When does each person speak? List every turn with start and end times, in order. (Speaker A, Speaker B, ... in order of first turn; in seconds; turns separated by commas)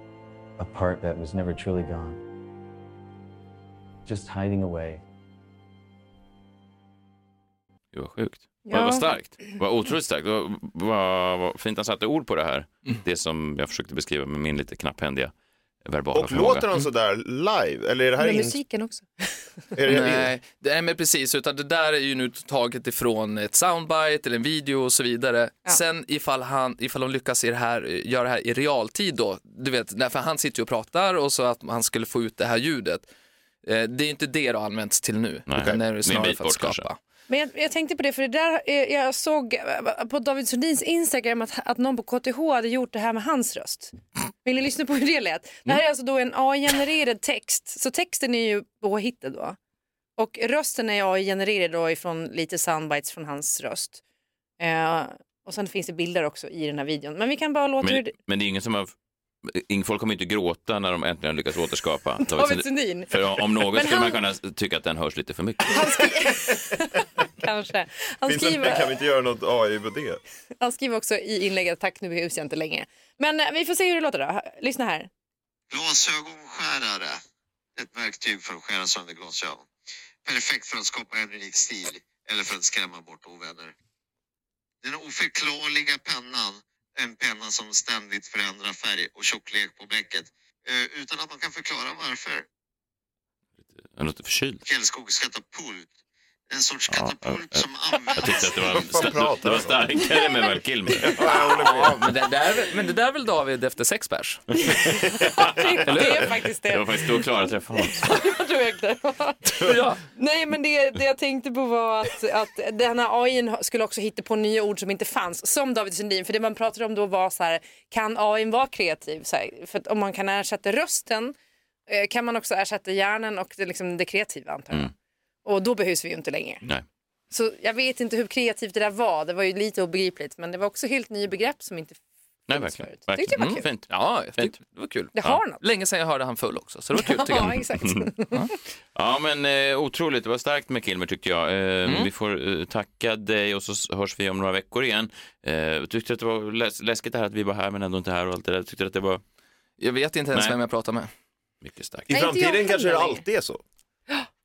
Speaker A: 0.6-2.2, Speaker A: 4.0-5.0, Speaker B: 7.9-15.3, Speaker C: 8.7-9.1, Speaker B: 15.8-16.7, Speaker D: 16.1-18.6, Speaker C: 18.2-19.6, Speaker D: 19.7-20.3, Speaker E: 19.9-33.1, Speaker E: 33.6-37.0, Speaker B: 35.5-36.8, Speaker C: 37.3-49.6, Speaker C: 50.2-54.0, Speaker C: 54.6-58.1, Speaker B: 57.8-58.9, Speaker B: 59.4-66.0, Speaker C: 62.2-64.2, Speaker C: 65.7-68.9, Speaker D: 68.3-70.2, Speaker C: 70.6-75.1, Speaker F: 75.7-77.2, Speaker F: 77.8-79.7, Speaker F: 80.2-83.7, Speaker F: 84.8-92.5, Speaker B: 93.8-94.6, Speaker F: 94.6-95.9, Speaker F: 96.5-98.8, Speaker B: 96.9-101.5, Speaker D: 98.6-100.0, Speaker C: 100.2-101.4, Speaker D: 101.0-102.1, Speaker E: 101.2-104.6, Speaker C: 104.5-121.3, Speaker D: 105.0-105.6, Speaker B: 105.2-105.5, Speaker E: 105.8-106.3, Speaker B: 106.7-108.3, Speaker E: 109.6-110.0, Speaker C: 121.9-124.9, Speaker C: 125.4-126.6, Speaker C: 127.3-133.7, Speaker B: 132.5-134.6, Speaker E: 133.3-137.6, Speaker C: 135.1-135.6, Speaker C: 137.0-138.5, Speaker B: 137.5-138.1, Speaker B: 138.9-149.2, Speaker E: 141.8-142.1, Speaker E: 149.8-151.1, Speaker B: 150.3-150.6, Speaker B: 151.6-152.1, Speaker D: 152.1-153.6, Speaker C: 152.1-153.2